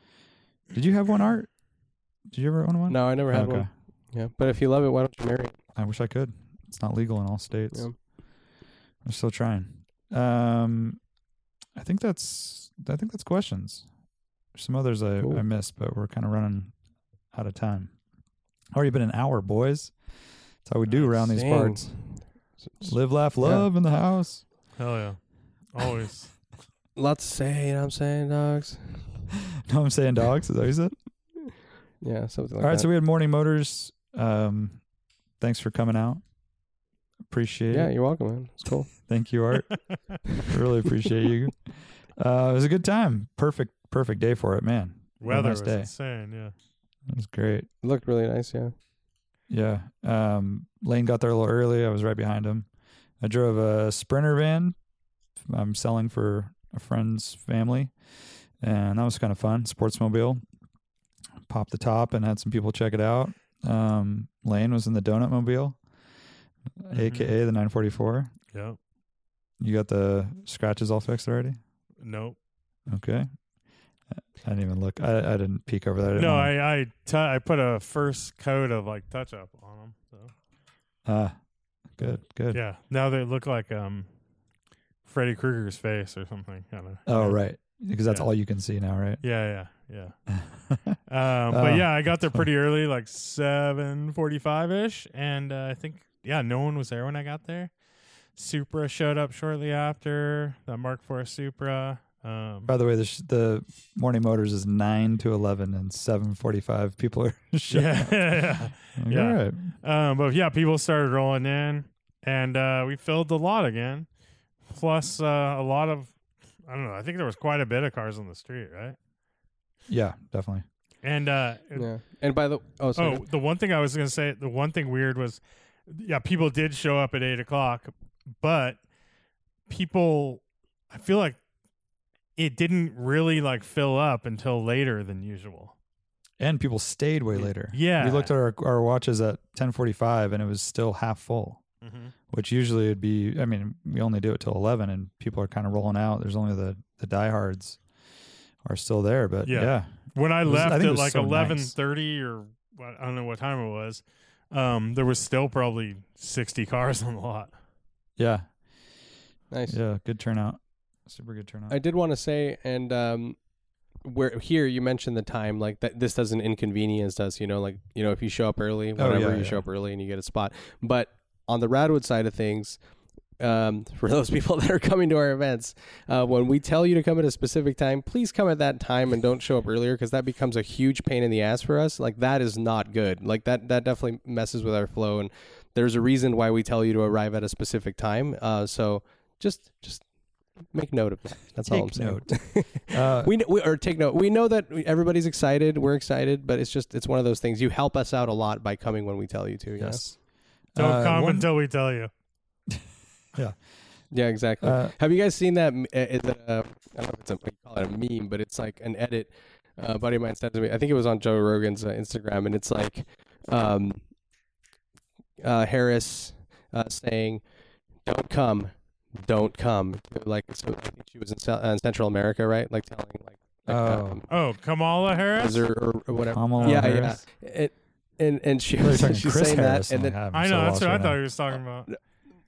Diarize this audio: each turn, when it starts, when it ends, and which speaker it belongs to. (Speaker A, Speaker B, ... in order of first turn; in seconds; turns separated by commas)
Speaker A: 0.7-1.5, Speaker A: 2.3-3.7, Speaker B: 2.9-5.6, Speaker A: 5.8-7.9, Speaker A: 9.0-11.0, Speaker A: 11.7-13.9, Speaker A: 14.5-16.7, Speaker A: 17.3-17.9, Speaker A: 18.7-19.9, Speaker A: 20.6-22.1, Speaker C: 20.9-21.1, Speaker B: 21.3-23.7, Speaker A: 22.8-24.4, Speaker C: 24.8-26.3, Speaker B: 26.9-29.2, Speaker A: 29.7-30.9, Speaker B: 32.0-32.9, Speaker A: 32.6-34.8, Speaker A: 35.4-36.2, Speaker A: 37.3-37.9, Speaker B: 37.7-38.9, Speaker A: 38.9-45.9, Speaker C: 45.2-46.5, Speaker A: 47.1-47.7, Speaker B: 47.8-48.7, Speaker A: 49.5-52.7, Speaker A: 53.2-54.7, Speaker A: 55.5-57.9, Speaker A: 58.6-60.4, Speaker A: 61.5-65.8, Speaker A: 66.8-68.3, Speaker C: 66.9-67.3, Speaker C: 68.5-68.8, Speaker A: 69.6-71.6, Speaker C: 72.0-72.4, Speaker A: 72.9-73.3, Speaker A: 74.1-76.5, Speaker C: 76.2-80.3, Speaker A: 81.0-81.3, Speaker A: 81.9-82.6, Speaker C: 82.0-84.1, Speaker C: 85.0-88.3, Speaker A: 87.0-89.2, Speaker C: 89.2-90.2, Speaker A: 90.3-91.0, Speaker C: 91.1-97.7, Speaker A: 91.5-92.5, Speaker C: 98.3-102.7, Speaker A: 102.7-109.7, Speaker C: 107.7-114.1, Speaker C: 114.7-119.0, Speaker A: 119.9-120.6, Speaker C: 121.0-121.9, Speaker B: 121.7-123.2, Speaker C: 122.9-128.8, Speaker C: 129.7-131.4, Speaker C: 132.3-135.7, Speaker A: 136.4-141.6, Speaker C: 137.3-138.3, Speaker C: 141.8-142.1, Speaker A: 142.3-147.8, Speaker A: 148.6-151.7, Speaker C: 149.4-157.5, Speaker A: 158.2-158.5, Speaker B: 159.5-159.8, Speaker A: 159.7-161.8, Speaker B: 161.7-163.4, Speaker B: 164.0-172.8, Speaker A: 169.0-169.6, Speaker B: 173.4-190.0, Speaker B: 190.7-200.0, Speaker A: 191.7-193.3, Speaker A: 199.8-200.2, Speaker A: 200.7-201.5, Speaker C: 200.8-202.1, Speaker B: 204.1-214.0, Speaker A: 204.6-204.9, Speaker B: 215.4-217.4, Speaker B: 218.0-224.3, Speaker A: 223.7-224.2, Speaker C: 224.3-225.6, Speaker B: 225.3-230.1, Speaker A: 226.3-227.2, Speaker C: 226.6-227.0, Speaker A: 228.8-231.2, Speaker C: 230.3-231.9